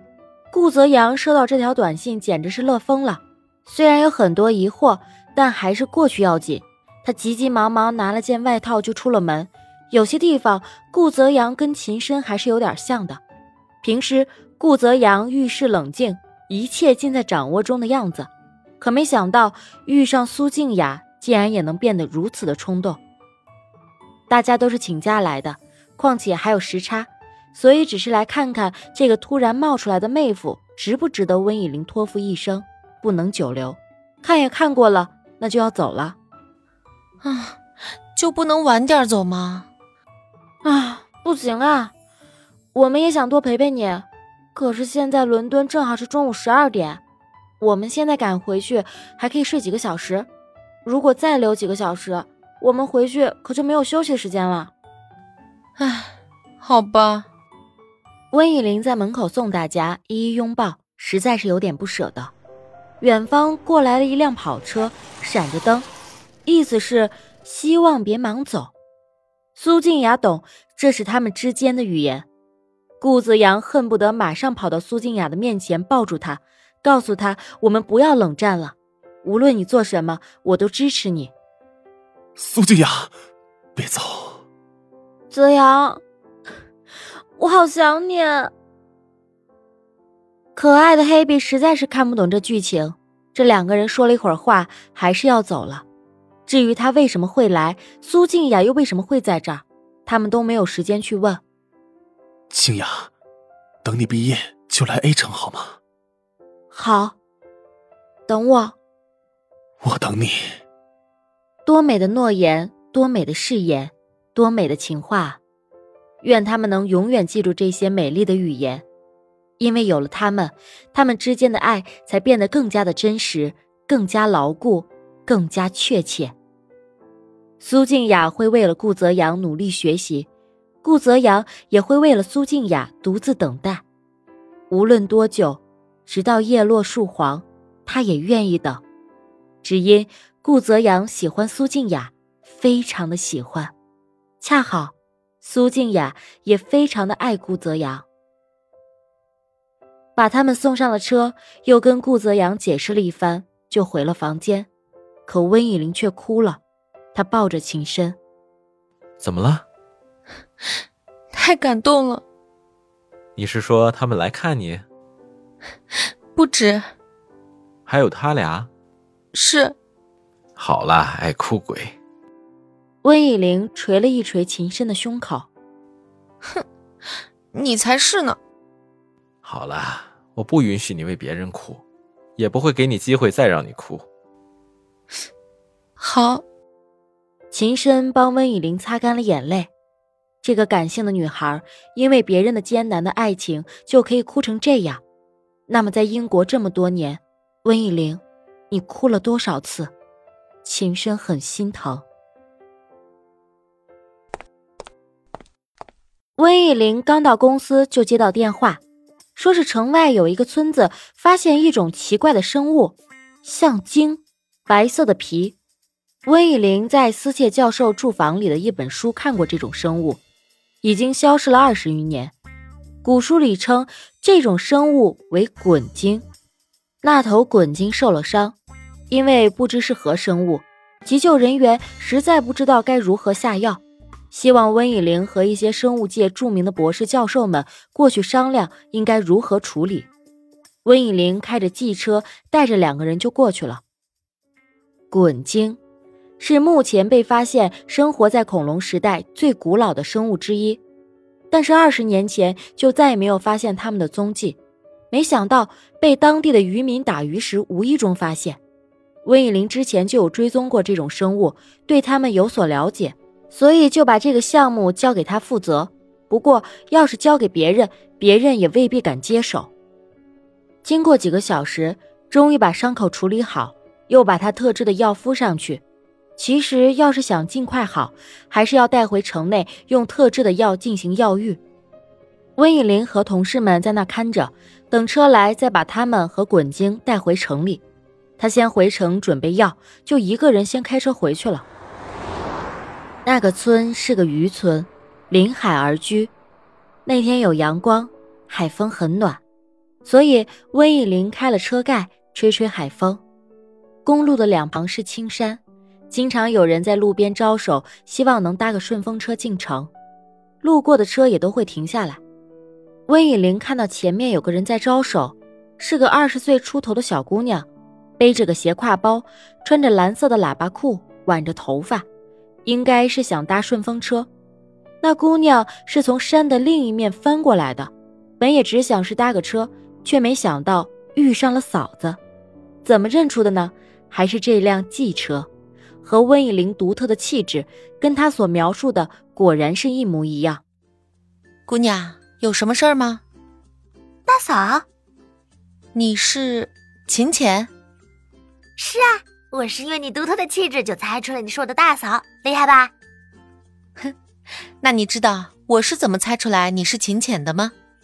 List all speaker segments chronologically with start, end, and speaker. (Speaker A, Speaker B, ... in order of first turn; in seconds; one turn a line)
Speaker A: 0.5-13.2
Speaker A: 13.8-23.0
Speaker A: 24.3-36.2
Speaker B: 37.2-37.6
Speaker B: 38.1-39.7
Speaker A: 40.6-41.9
Speaker A: 42.7-47.0
Speaker A: 47.6-50.3
Speaker A: 50.8-54.7
Speaker B: 55.8-57.3
Speaker A: 58.3-62.3
Speaker A: 63.0-65.9
Speaker A: 66.5-68.7
Speaker A: 69.5-72.2
Speaker A: 73.0-81.3
Speaker C: 82.3-83.2
Speaker C: 83.7-84.4
Speaker A: 85.3-86.0
Speaker A: 87.3-88.5
Speaker A: 90.5-95.8
Speaker A: 96.5-101.4
Speaker C: 102.5-103.1
Speaker C: 103.8-105.8
Speaker A: 106.7-107.2
Speaker A: 108.3-108.8
Speaker C: 109.8-110.6
Speaker A: 111.7-115.4
Speaker A: 116.2-118.8
Speaker A: 119.6-126.3
Speaker A: 127.6-130.3
Speaker A: 130.8-133.8
Speaker A: 134.7-138.8
Speaker A: 139.6-143.7
Speaker A: 144.4-148.1
Speaker A: 150.2-154.7
Speaker A: 155.3-156.6
Speaker A: 157.1-158.2
Speaker D: 159.2-159.6
Speaker B: 161.3-162.2
Speaker D: 163.3-164.8
Speaker B: 166.3-166.9
Speaker D: 167.8-168.7
Speaker B: 169.3-169.7
Speaker D: 170.6-171.9
Speaker A: 173.0-175.5
Speaker B: 177.5-178.4
Speaker D: 179.4-181.8
Speaker D: 182.4-184.1
Speaker B: 186.0-186.4
Speaker A: 187.5-189.7
Speaker A: 190.4-195.0
Speaker A: 195.7-199.9
Speaker A: 200.6-202.0
Speaker A: 206.4-208.8
Speaker A: 209.3-215.6
Speaker A: 216.2-220.2
Speaker A: 220.8-222.3
Speaker A: 223.0-226.2
Speaker A: 227.0-228.6
Speaker A: 229.1-240.1
Speaker A: 240.8-243.8
Speaker A: 245.1-245.8
Speaker A: 246.4-250.8
Speaker A: 251.5-254.6
Speaker A: 255.1-258.6
Speaker A: 259.2-269.7
Speaker A: 270.8-275.8
Speaker A: 276.4-281.6
Speaker A: 282.6-287.8
Speaker A: 288.4-291.6
Speaker A: 293.2-296.3
Speaker A: 297.0-299.4
Speaker A: 300.0-303.2
Speaker A: 304.0-305.6
Speaker A: 306.1-309.9
Speaker A: 310.6-312.2
Speaker A: 313.1-317.7
Speaker A: 318.2-322.0
Speaker A: 322.6-324.3
Speaker A: 325.0-332.2
Speaker A: 332.8-335.5
Speaker A: 336.0-340.6
Speaker B: 341.7-343.2
Speaker E: 344.3-344.8
Speaker B: 345.9-347.7
Speaker E: 348.8-352.9
Speaker B: 354.8-357.7